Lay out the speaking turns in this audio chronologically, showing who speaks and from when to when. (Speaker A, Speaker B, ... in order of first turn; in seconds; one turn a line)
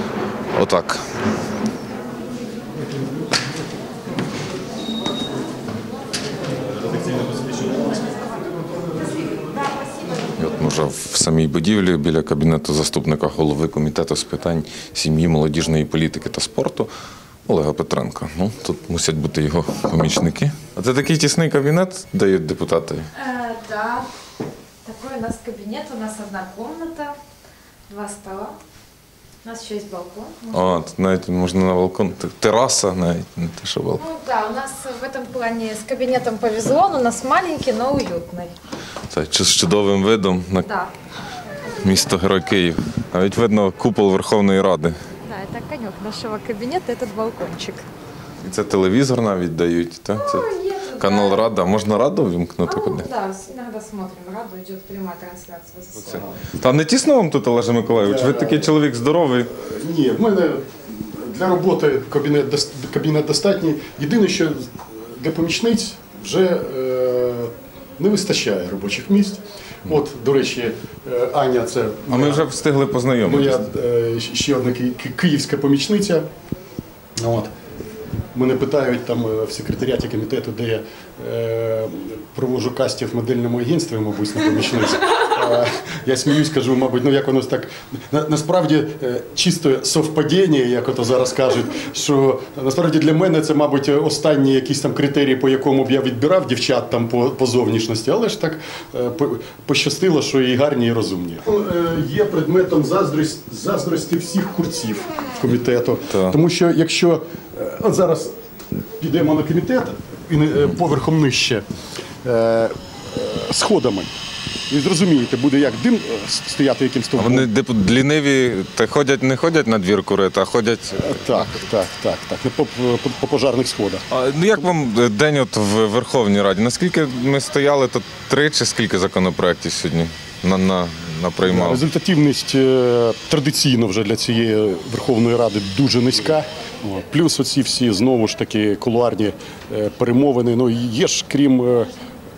Speaker A: 0.6-1.0
Speaker A: 10.4-16.9
Speaker A: 17.5-23.1
Speaker B: 23.1-24.1
Speaker B: 24.9-27.1
Speaker B: 27.9-28.6
Speaker B: 29.4-30.8
Speaker A: 30.5-34.0
Speaker B: 34.0-38.5
Speaker A: 39.1-40.7
Speaker B: 40.6-40.9
Speaker A: 41.8-45.0
Speaker B: 45.3-47.9
Speaker A: 48.4-50.5
Speaker B: 50.2-51.5
Speaker A: 51.0-53.1
Speaker B: 52.6-56.2
Speaker A: 56.1-59.5
Speaker C: 58.0-58.7
Speaker C: 59.5-72.5
Speaker A: 72.1-73.6
Speaker C: 73.2-76.3
Speaker C: 77.2-77.5
Speaker C: 78.3-108.3
Speaker C: 109.0-111.7
Speaker C: 112.2-114.1
Speaker C: 114.7-117.5
Speaker A: 117.2-121.5
Speaker C: 121.0-124.0
Speaker A: 124.1-131.8
Speaker C: 131.4-141.9